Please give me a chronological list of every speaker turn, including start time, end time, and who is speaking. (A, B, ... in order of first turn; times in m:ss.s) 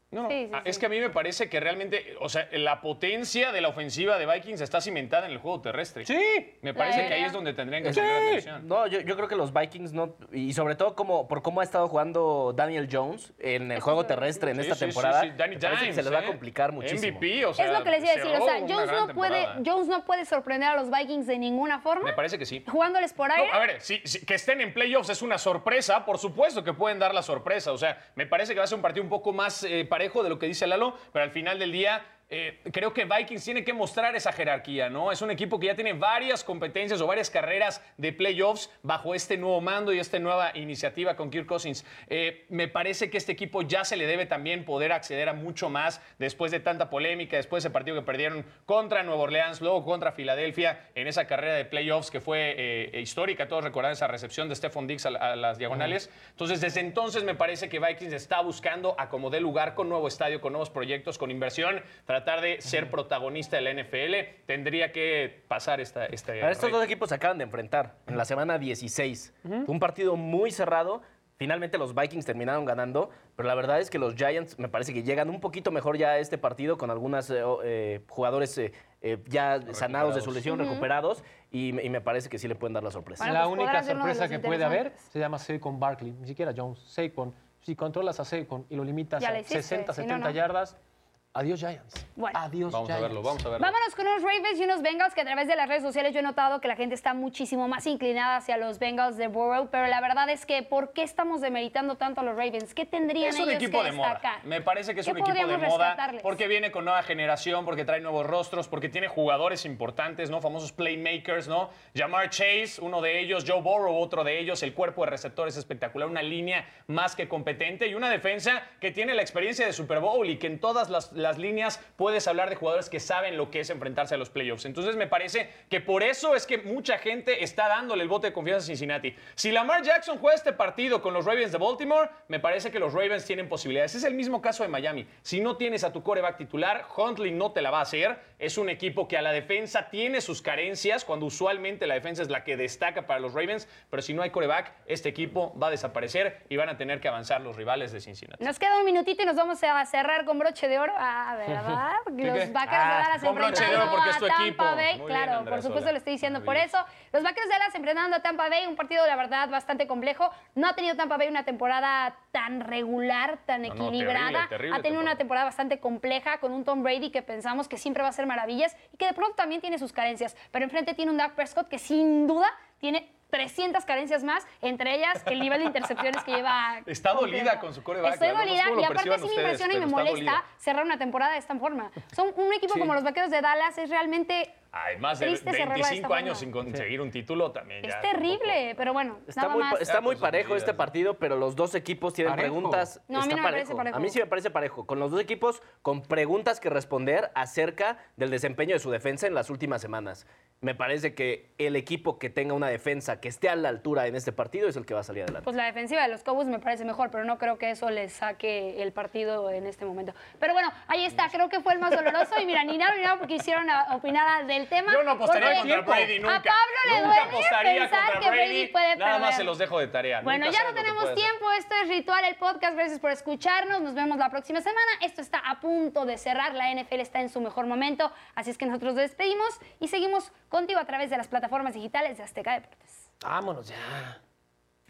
0:00.1-0:08.6 A
0:00.2-0:00.8 B
0:06.0-0:07.2 C
0:06.8-0:07.4 B
0:07.8-0:17.2 D
0:07.9-0:08.4 C
0:13.8-0:14.4 B
0:14.5-0:19.6 A
0:17.6-0:23.6 B
0:22.0-0:22.6 A
0:23.4-1:06.8 A
1:06.4-1:23.3 D
1:19.7-1:20.5 A
1:20.5-1:20.9 B
1:23.2-1:25.0 B
1:23.2-1:30.8 C
1:29.2-1:30.4 B
1:31.3-1:33.4 C
1:32.7-1:33.8 A
1:33.6-1:44.4 B
1:43.2-2:28.5 A
1:45.0-1:46.4 B
2:28.4-3:04.6 B
2:32.2-2:36.7 A
2:43.6-2:45.2 A
2:56.9-3:00.4 A
3:04.7-3:08.6 A
3:05.2-3:06.5 B
3:07.8-3:09.9 B
3:09.3-3:25.5 D
3:09.8-3:10.9 A
3:12.2-3:12.9 C
3:13.1-3:14.2 B
3:25.4-3:39.5 B
3:34.9-3:41.3 A
3:35.4-3:36.2 C
3:40.2-3:53.0 B
3:53.2-3:54.2 C